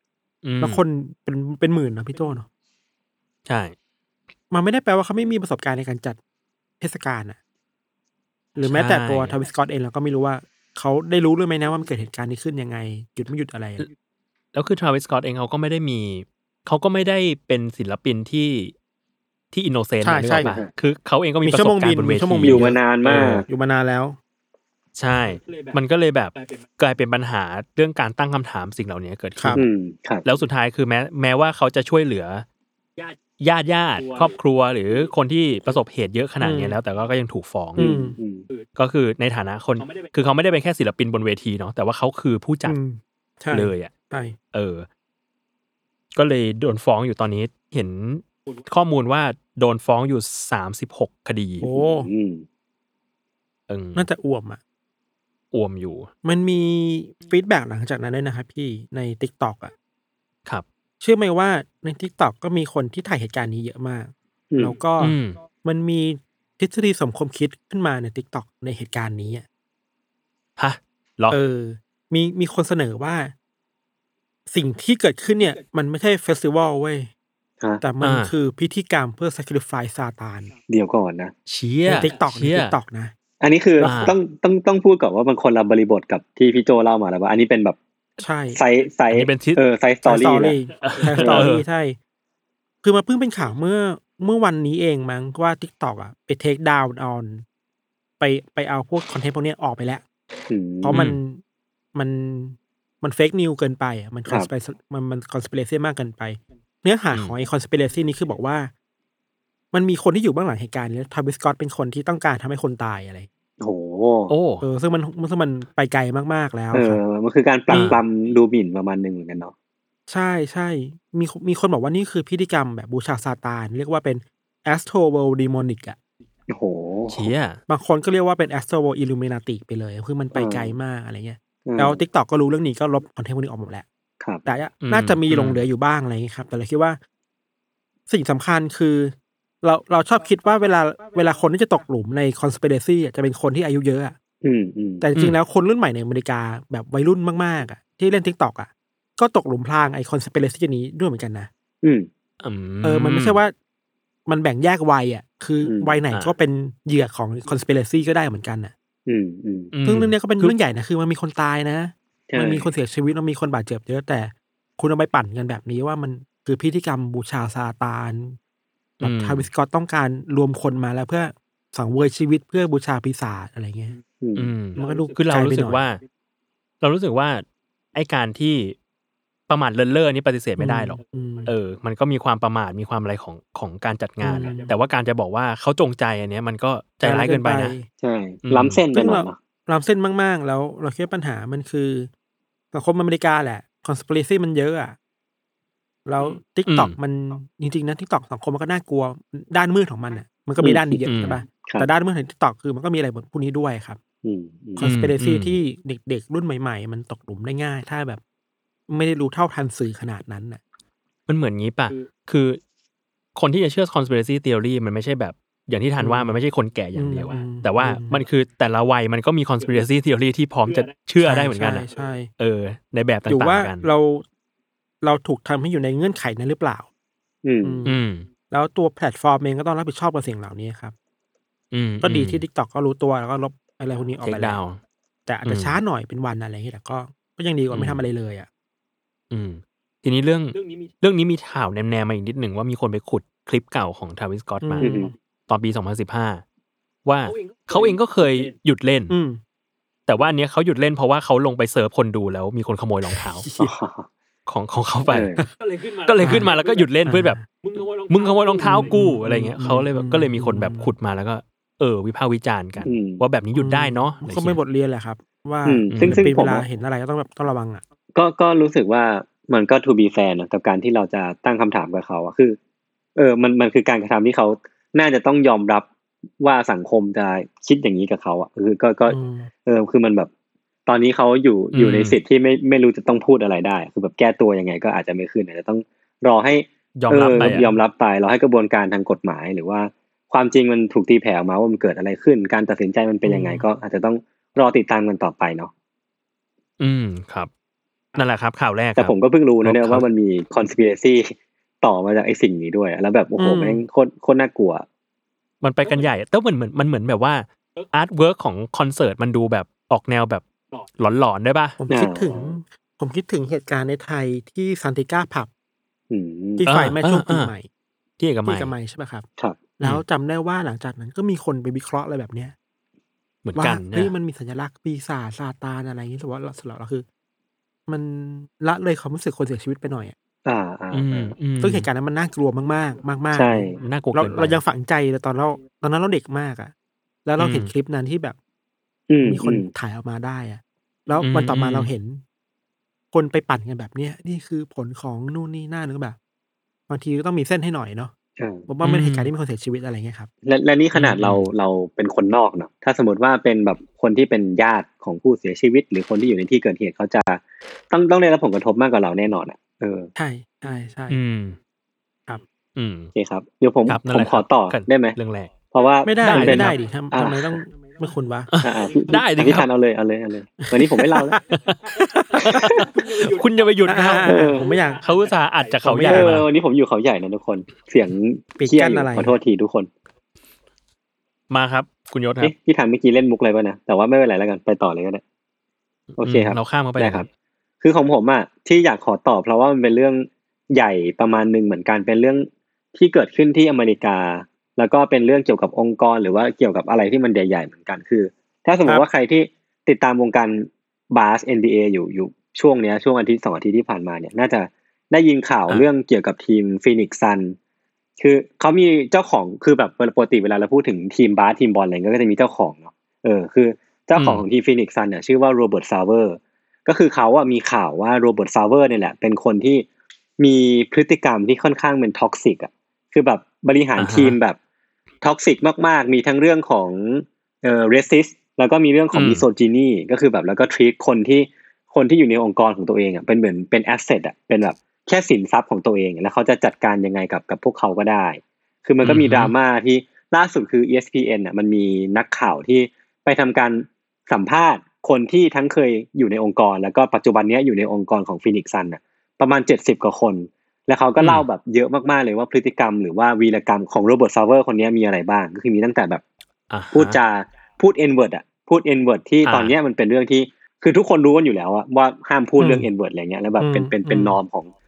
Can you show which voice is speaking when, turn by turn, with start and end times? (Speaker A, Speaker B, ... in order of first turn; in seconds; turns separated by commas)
Speaker A: 0.4-0.8, Speaker B: 0.6-2.5, Speaker A: 3.5-3.7, Speaker B: 4.5-6.2, Speaker B: 6.8-7.4, Speaker B: 8.6-13.9, Speaker A: 8.6-9.3, Speaker A: 14.5-18.7, Speaker A: 19.5-23.4, Speaker B: 20.0-20.6, Speaker B: 21.4-24.2, Speaker C: 22.4-23.4, Speaker A: 24.9-29.7, Speaker B: 29.4-29.6, Speaker C: 29.6-30.2, Speaker A: 30.2-32.4, Speaker A: 33.3-37.9, Speaker B: 36.4-36.8, Speaker B: 37.8-38.2, Speaker C: 37.8-38.5, Speaker A: 38.6-42.8, Speaker B: 42.7-44.3, Speaker A: 43.5-43.9, Speaker A: 44.5-44.9, Speaker A: 46.1-51.6, Speaker B: 51.6-52.1, Speaker C: 51.7-52.5, Speaker A: 53.7-54.1, Speaker B: 53.9-54.6, Speaker A: 55.5-56.1, Speaker B: 56.2-59.7, Speaker B: 61.0-69.4, Speaker C: 64.5-64.8, Speaker A: 65.0-65.4, Speaker A: 70.6-71.4, Speaker B: 71.3-73.3, Speaker B: 74.5-77.1, Speaker B: 77.8-80.5, Speaker A: 78.0-78.3, Speaker C: 80.7-81.3, Speaker A: 81.5-82.8, Speaker B: 81.9-83.1, Speaker C: 83.4-87.8, Speaker B: 83.8-84.0, Speaker A: 83.8-84.1, Speaker B: 88.2-88.6, Speaker C: 88.5-90.6, Speaker A: 89.1-89.6, Speaker B: 90.0-92.0, Speaker A: 90.8-91.6, Speaker C: 91.1-91.5, Speaker B: 92.8-97.4, Speaker B: 98.2-100.0, Speaker C: 100.5-101.0, Speaker B: 100.8-101.4, Speaker A: 100.9-101.2, Speaker B: 101.9-108.7, Speaker B: 109.7-113.3, Speaker C: 113.6-114.3, Speaker A: 114.3-114.6, Speaker B: 114.6-117.0, Speaker C: 116.7-119.5, Speaker A: 117.7-118.0, Speaker B: 120.1-126.0, Speaker C: 126.5-127.3, Speaker A: 127.1-127.6, Speaker B: 127.7-133.8, Speaker C: 130.3-130.7, Speaker C: 131.7-132.0, Speaker B: 134.4-137.0, Speaker A: 134.8-135.6, Speaker B: 138.1-144.1, Speaker C: 144.4-145.0, Speaker B: 145.0-151.5, Speaker C: 151.8-152.1, Speaker A: 152.4-153.4, Speaker B: 152.8-153.5, Speaker B: 154.3-158.7, Speaker C: 155.6-155.9, Speaker C: 159.1-159.7, Speaker A: 159.7-160.5, Speaker B: 159.8-168.4, Speaker C: 162.3-162.7, Speaker A: 169.0-169.5, Speaker B: 169.0-173.9, Speaker C: 174.2-174.5, Speaker A: 174.3-176.0, Speaker B: 174.8-175.8, Speaker A: 176.8-177.4, Speaker A: 177.9-178.8, Speaker A: 179.5-187.7, Speaker B: 180.6-181.5, Speaker B: 184.2-184.7, Speaker B: 187.0-187.9, Speaker C: 188.0-189.4, Speaker A: 188.4-188.8, Speaker B: 188.9-192.1, Speaker B: 192.7-194.9, Speaker B: 196.1-204.0, Speaker A: 196.7-196.9, Speaker C: 200.6-201.9, Speaker A: 201.1-201.4, Speaker C: 204.2-204.8, Speaker B: 204.8-208.2, Speaker A: 204.8-205.6, Speaker B: 208.9-210.6, Speaker A: 211.3-212.6, Speaker A: 213.3-221.9, Speaker B: 216.0-216.3, Speaker B: 216.9-218.2, Speaker B: 221.2-222.3, Speaker A: 222.4-223.9, Speaker B: 223.2-224.2, Speaker B: 225.0-226.9, Speaker C: 227.4-227.8, Speaker B: 227.6-228.0, Speaker A: 227.8-228.2, Speaker B: 228.5-230.9, Speaker A: 231.7-232.4, Speaker B: 232.0-234.6, Speaker A: 234.2-234.8, Speaker B: 235.3-238.5, Speaker A: 235.4-235.8, Speaker A: 237.7-238.1, Speaker A: 239.3-246.4, Speaker B: 244.6-245.1, Speaker C: 244.8-245.1, Speaker A: 247.0-249.1, Speaker B: 249.1-249.4, Speaker A: 250.1-253.5, Speaker B: 253.1-253.7, Speaker C: 253.6-254.1, Speaker A: 254.5-264.6, Speaker C: 255.1-255.4, Speaker B: 256.2-256.5, Speaker B: 257.0-257.4, Speaker B: 258.6-260.9, Speaker C: 262.8-263.2, Speaker B: 263.5-267.8, Speaker C: 265.6-266.6, Speaker A: 265.9-266.3, Speaker C: 268.1-272.6, Speaker C: 273.1-275.9, Speaker C: 276.4-280.3, Speaker B: 279.1-279.5, Speaker C: 280.9-295.7, Speaker A: 281.7-282.2, Speaker A: 287.0-287.7, Speaker B: 287.4-287.6, Speaker B: 293.2-293.6, Speaker A: 296.8-297.5, Speaker A: 298.1-300.0, Speaker C: 299.0-304.8, Speaker B: 303.4-303.8, Speaker A: 305.6-311.8, Speaker B: 311.8-315.5, Speaker C: 311.9-312.5, Speaker C: 316.1-316.6, Speaker B: 316.6-317.7, Speaker A: 316.6-317.5, Speaker A: 318.2-318.7, Speaker B: 318.4-319.2, Speaker B: 319.8-322.5, Speaker A: 323.4-324.1, Speaker B: 323.6-327.0, Speaker B: 327.9-330.1, Speaker C: 330.4-331.3, Speaker A: 330.9-331.9, Speaker B: 331.6-336.7, Speaker C: 333.3-333.8, Speaker A: 333.8-334.6, Speaker B: 337.2-338.4, Speaker A: 337.4-337.7, Speaker C: 339.1-339.7, Speaker B: 339.2-342.2, Speaker A: 341.2-341.9, Speaker B: 343.1-346.2, Speaker B: 346.9-348.1, Speaker C: 348.4-348.7, Speaker B: 348.7-350.3, Speaker A: 348.8-349.3, Speaker C: 350.4-360.1, Speaker A: 350.9-351.5, Speaker B: 360.1-361.2, Speaker A: 361.1-361.6, Speaker A: 362.8-363.1, Speaker C: 363.1-365.2, Speaker A: 363.9-365.6, Speaker C: 365.7-367.6, Speaker B: 366.0-368.5, Speaker A: 366.2-366.8, Speaker A: 368.5-369.7, Speaker C: 368.6-371.4, Speaker B: 370.6-371.4, Speaker A: 371.5-376.4, Speaker B: 372.0-372.7, Speaker C: 372.4-372.8, Speaker B: 373.9-375.0, Speaker C: 374.3-374.7, Speaker B: 375.8-376.4, Speaker C: 376.1-379.9, Speaker B: 378.6-379.3, Speaker A: 381.5-382.5, Speaker C: 382.4-385.2, Speaker A: 386.1-387.2, Speaker C: 386.2-387.3, Speaker C: 387.8-407.6, Speaker C: 408.2-419.9, Speaker A: 414.2-414.4, Speaker C: 420.4-424.6, Speaker A: 424.0-424.4, Speaker C: 425.2-456.2, Speaker A: 429.1-429.4, Speaker A: 439.0-439.5, Speaker A: 451.2-451.4, Speaker A: 456.7-457.2, Speaker C: 456.9-464.7, Speaker A: 459.4-459.7, Speaker B: 462.6-462.9, Speaker B: 463.6-464.4